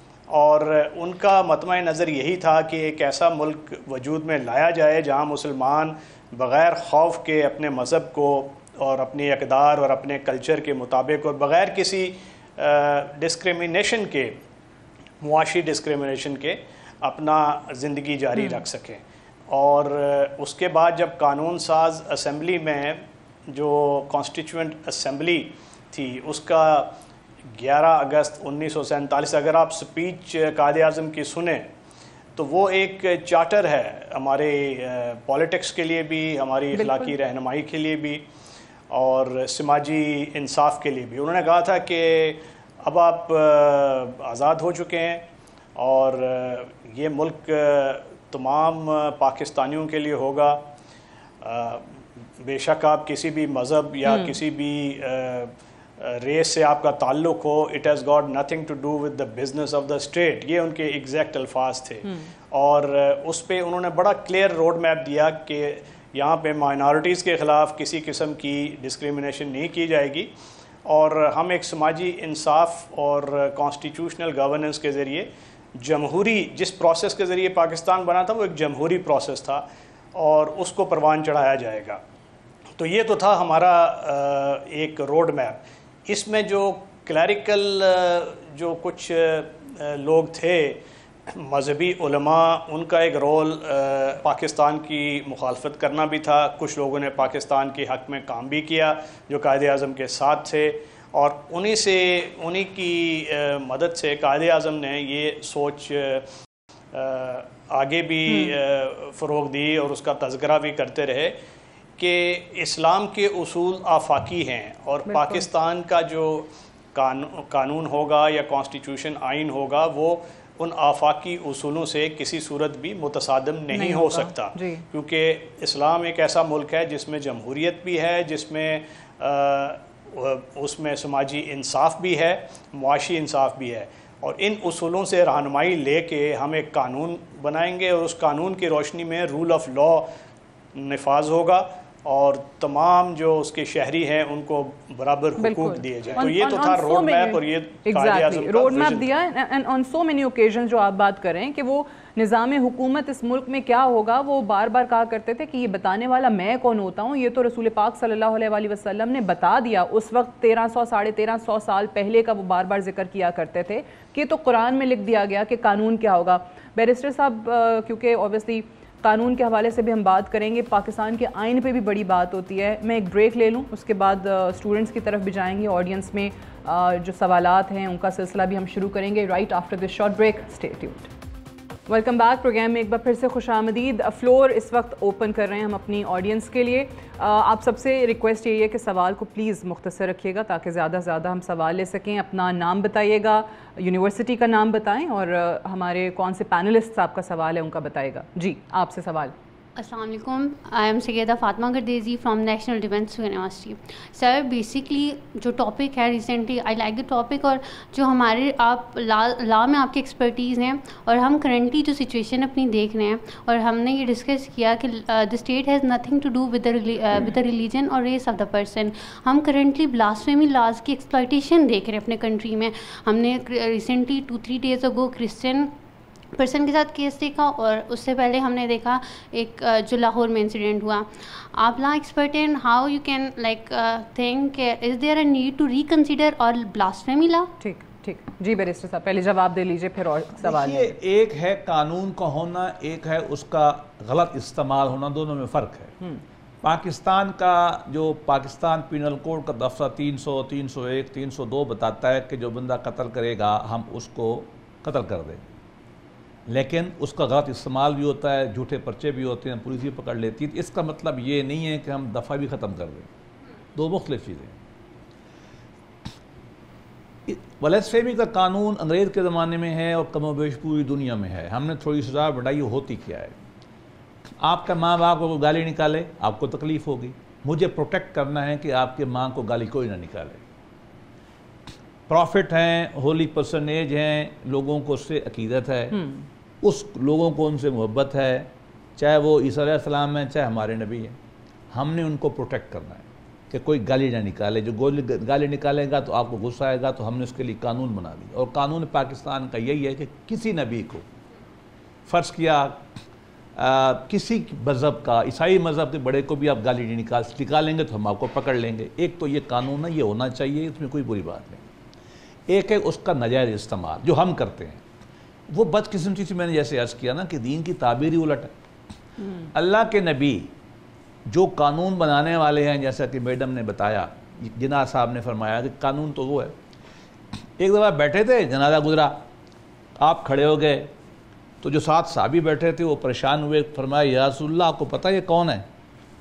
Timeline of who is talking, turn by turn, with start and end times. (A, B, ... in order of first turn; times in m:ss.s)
0:00.3-0:14.4 A
0:15.2-0:27.0 A
0:18.4-0:18.6 B
0:27.6-0:31.7 A
0:32.4-0:38.2 A
0:36.8-0:37.1 B
0:38.9-0:50.7 A
0:51.4-0:51.9 A
0:52.4-1:10.3 A
0:54.0-0:54.4 B
1:10.9-1:22.0 A
1:22.8-1:46.3 A
1:46.9-1:51.4 A
1:48.3-1:48.6 B
1:52.0-2:20.1 A
1:55.1-1:55.4 B
2:03.7-2:04.8 B
2:20.8-2:29.1 A
2:25.4-3:01.1 B
3:01.9-3:19.3 B
3:19.8-3:45.7 C
3:46.4-3:57.5 C
3:57.6-4:00.9 B
4:00.4-4:05.9 D
4:06.6-4:15.5 D
4:16.5-4:23.1 D
4:23.8-4:24.6 D
4:27.3-4:33.4 D
4:34.4-4:40.4 D
4:42.1-4:46.0 D
4:45.9-4:46.2 B
4:46.6-4:51.2 D
4:51.7-5:01.0 D
5:02.1-5:02.8 D
5:03.6-5:11.6 D
5:12.5-5:14.8 D
5:15.5-5:18.5 D
5:19.2-5:19.5 B
5:19.5-5:20.5 D
5:21.3-5:26.6 D
5:27.6-5:29.2 D
5:30.0-5:30.9 D
5:31.6-5:35.6 D